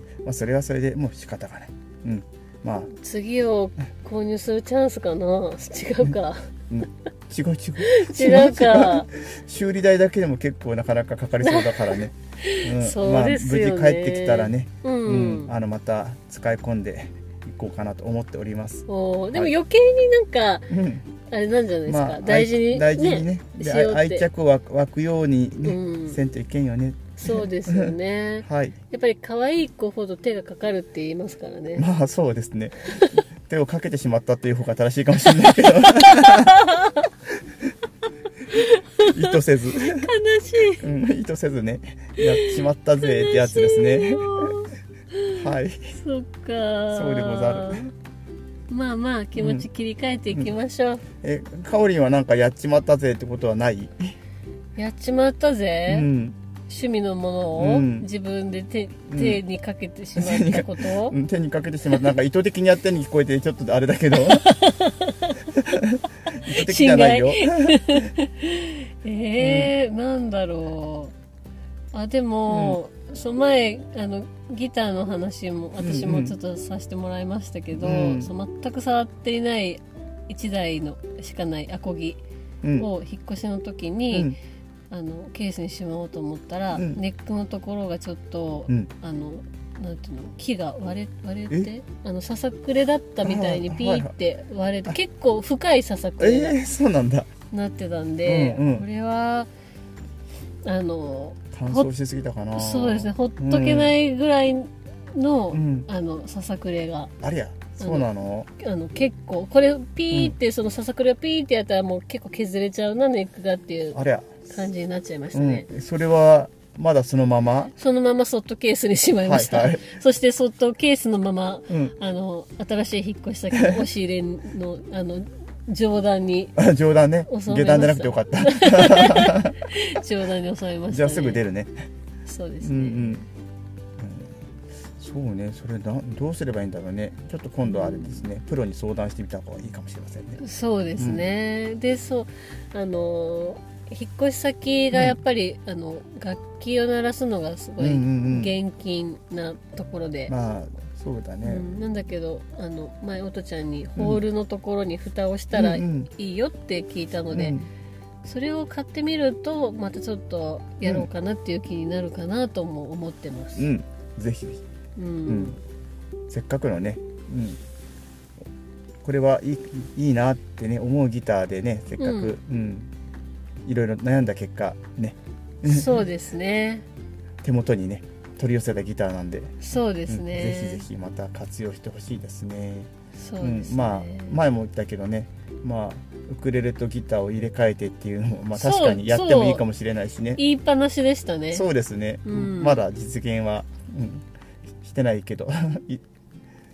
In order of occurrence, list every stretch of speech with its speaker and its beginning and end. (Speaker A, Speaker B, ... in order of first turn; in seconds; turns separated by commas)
Speaker A: 0.2-2.9, Speaker B: 2.9-6.5, Speaker A: 6.7-19.5, Speaker B: 7.9-9.1, Speaker B: 11.4-15.5, Speaker B: 18.9-20.7, Speaker A: 20.7-21.1, Speaker B: 21.3-24.3, Speaker A: 21.9-28.8, Speaker B: 25.6-26.2, Speaker B: 27.2-31.9, Speaker A: 31.8-36.6, Speaker B: 32.9-33.2, Speaker B: 35.4-37.1, Speaker B: 38.5-40.8, Speaker A: 39.0-40.1, Speaker A: 40.8-44.5, Speaker B: 42.2-45.3, Speaker A: 45.4-45.9, Speaker B: 46.0-47.9, Speaker A: 46.9-47.9, Speaker B: 48.7-51.0, Speaker A: 49.4-49.7, Speaker A: 51.2-54.1, Speaker B: 54.8-56.1, Speaker A: 55.9-56.4, Speaker B: 56.7-61.2, Speaker A: 57.6-58.1, Speaker A: 59.1-59.4, Speaker A: 60.2-64.5, Speaker B: 64.2-65.4, Speaker A: 65.7-68.0, Speaker B: 66.3-71.1, Speaker A: 69.4-69.7, Speaker B: 71.9-82.2, Speaker A: 72.5-72.8, Speaker A: 75.8-76.4, Speaker A: 77.8-78.3, Speaker A: 82.6-82.9, Speaker B: 82.8-84.4, Speaker A: 84.1-84.4, Speaker B: 84.9-96.6, Speaker A: 86.7-87.0, Speaker A: 93.2-94.1, Speaker A: 96.2-97.3, Speaker B: 97.5-99.5, Speaker A: 98.2-98.9, Speaker B: 100.7-101.9, Speaker A: 101.5-104.0, Speaker B: 102.5-107.1, Speaker A: 105.5-105.9, Speaker A: 107.2-108.5, Speaker B: 107.8-108.1, Speaker B: 108.6-115.7, Speaker A: 110.1-110.4, Speaker A: 113.9-114.5, Speaker A: 115.3-117.7, Speaker B: 117.8-126.6, Speaker A: 119.2-119.9, Speaker A: 121.7-122.0, Speaker A: 126.6-129.6, Speaker B: 127.3-131.4, Speaker A: 130.9-131.7, Speaker B: 132.3-133.2, Speaker A: 132.6-133.3, Speaker A: 134.0-134.3, Speaker A: 135.0-140.4, Speaker B: 137.6-138.3, Speaker B: 140.4-150.3, Speaker A: 141.0-141.2, Speaker A: 147.8-148.5, Speaker A: 150.3-151.8, Speaker B: 151.4-157.6, Speaker A: 154.0-154.2, Speaker A: 155.5-156.1, Speaker A: 157.3-157.7, Speaker B: 158.2-163.7, Speaker A: 160.8-161.1, Speaker A: 163.6-164.6, Speaker B: 165.0-165.6, Speaker A: 165.3-165.6, Speaker A: 166.3-167.6, Speaker A: 169.0-172.9, Speaker B: 172.0-172.3, Speaker A: 173.7-176.1, Speaker B: 175.6-176.8, Speaker A: 177.4-182.9, Speaker B: 179.6-180.8, Speaker B: 183.2-184.4, Speaker A: 183.4-190.4, Speaker B: 188.5-189.7, Speaker B: 190.4-191.7, Speaker A: 191.5-194.3, Speaker B: 192.3-192.8, Speaker A: 194.8-196.0